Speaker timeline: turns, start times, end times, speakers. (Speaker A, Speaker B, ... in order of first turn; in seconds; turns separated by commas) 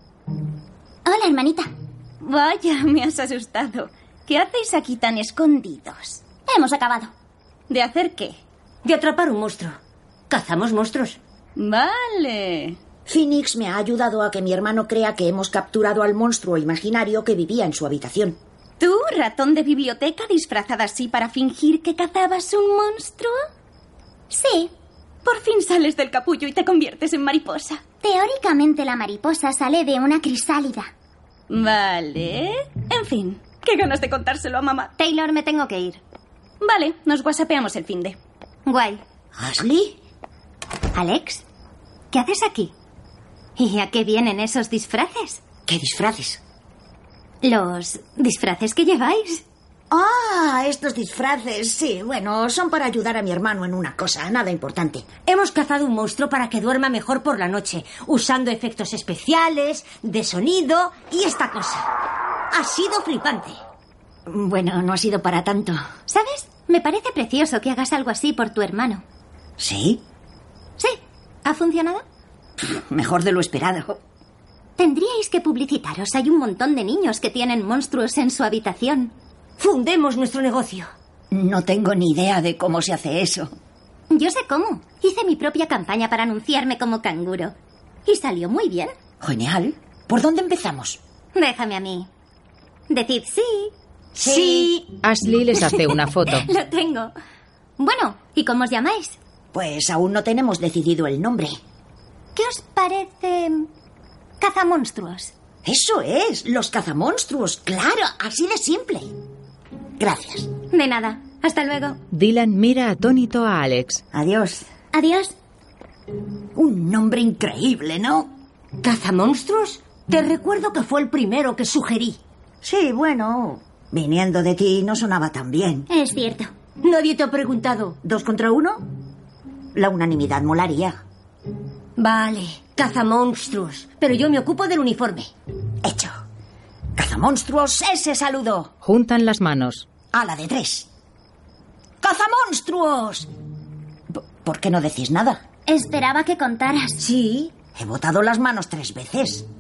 Speaker A: 1.0-1.7, Speaker B: 2.2-5.7, Speaker A: 6.2-7.1, Speaker B: 7.7-8.4, Speaker C: 8.8-9.8, Speaker C: 10.3-11.2, Speaker B: 11.6-12.8, Speaker D: 13.1-18.4, Speaker B: 18.8-23.3, Speaker A: 24.3-24.7, Speaker B: 25.2-27.8, Speaker A: 28.0-30.9, Speaker B: 31.5-34.9, Speaker E: 35.0-36.0, Speaker B: 36.6-38.1, Speaker E: 38.6-39.0, Speaker D: 39.4-40.0, Speaker E: 40.9-41.4, Speaker E: 42.1-42.7, Speaker E: 43.6-45.4, Speaker D: 45.6-46.4, Speaker E: 47.4-49.4, Speaker D: 49.9-55.1, Speaker C: 55.3-61.9, Speaker C: 62.5-63.6, Speaker D: 64.3-65.8, Speaker E: 66.1-69.0, Speaker D: 69.6-70.0, Speaker E: 70.8-72.0, Speaker D: 72.6-74.0, Speaker E: 74.8-79.1, Speaker C: 79.6-80.9, Speaker D: 81.3-83.5, Speaker E: 84.1-87.5, Speaker E: 88.1-88.9, Speaker D: 89.2-91.0, Speaker E: 91.3-92.1, Speaker E: 92.9-93.7, Speaker D: 94.2-94.7, Speaker C: 94.2-94.9, Speaker F: 95.0-96.5, Speaker E: 96.3-97.1, Speaker E: 97.8-99.2, Speaker D: 99.5-101.6, Speaker E: 102.3-103.7, Speaker E: 104.4-105.3, Speaker D: 105.6-109.1, Speaker D: 110.0-110.5, Speaker E: 110.7-112.0, Speaker F: 112.1-114.0, Speaker D: 114.1-114.7, Speaker E: 115.0-115.3, Speaker D: 116.5-118.3, Speaker C: 118.8-122.2, Speaker D: 122.6-125.9, Speaker A: 125.9-126.5, Speaker C: 126.8-128.0, Speaker D: 128.0-128.8, Speaker D: 129.7-131.0, Speaker C: 132.0-135.3, Speaker D: 135.8-136.1, Speaker D: 136.9-138.7, Speaker F: 138.8-139.9, Speaker D: 140.1-140.9, Speaker D: 142.0-143.3, Speaker D: 144.1-145.4, Speaker A: 145.7-147.0, Speaker C: 147.0-147.5, Speaker D: 147.7-149.5